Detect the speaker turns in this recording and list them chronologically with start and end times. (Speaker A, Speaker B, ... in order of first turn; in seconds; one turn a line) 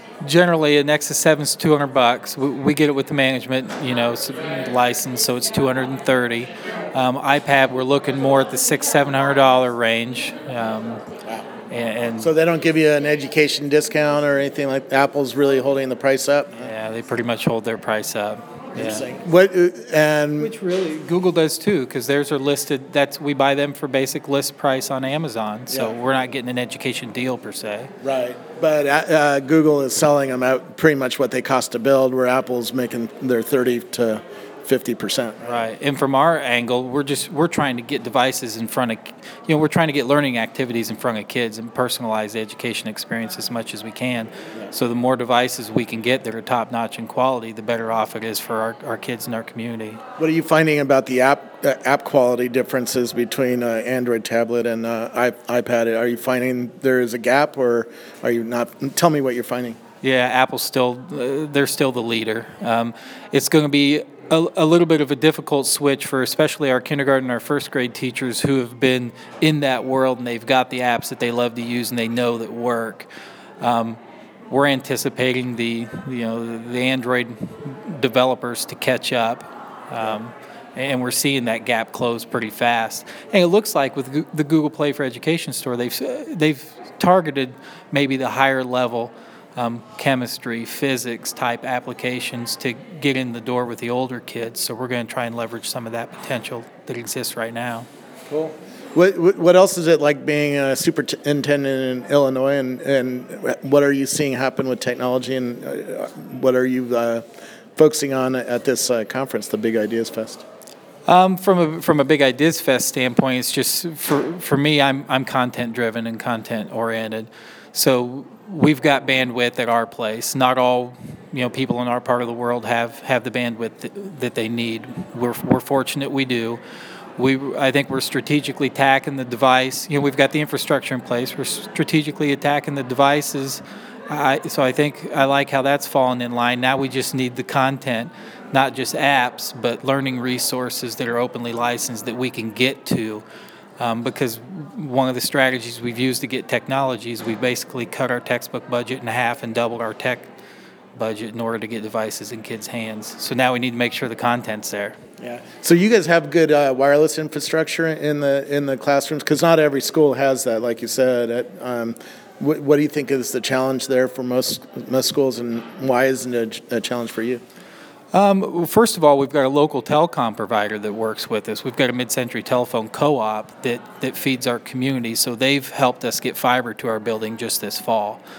Speaker A: 0.2-11.0
Speaker A: 11.7-12.3
Speaker B: 12.2-16.7
Speaker A: 16.6-19.1
Speaker B: 18.7-20.5
Speaker A: 20.4-27.9
Speaker B: 28.0-35.6
Speaker A: 35.4-50.0
Speaker B: 50.2-59.8
Speaker A: 60.0-73.1
Speaker A: 73.6-74.0
Speaker A: 74.5-97.9
Speaker B: 98.3-107.2
Speaker B: 107.8-110.4
Speaker A: 111.0-126.6
Speaker A: 127.2-143.2
Speaker A: 143.8-150.3
Speaker A: 150.9-154.9
Speaker B: 155.2-167.4
Speaker A: 168.1-178.2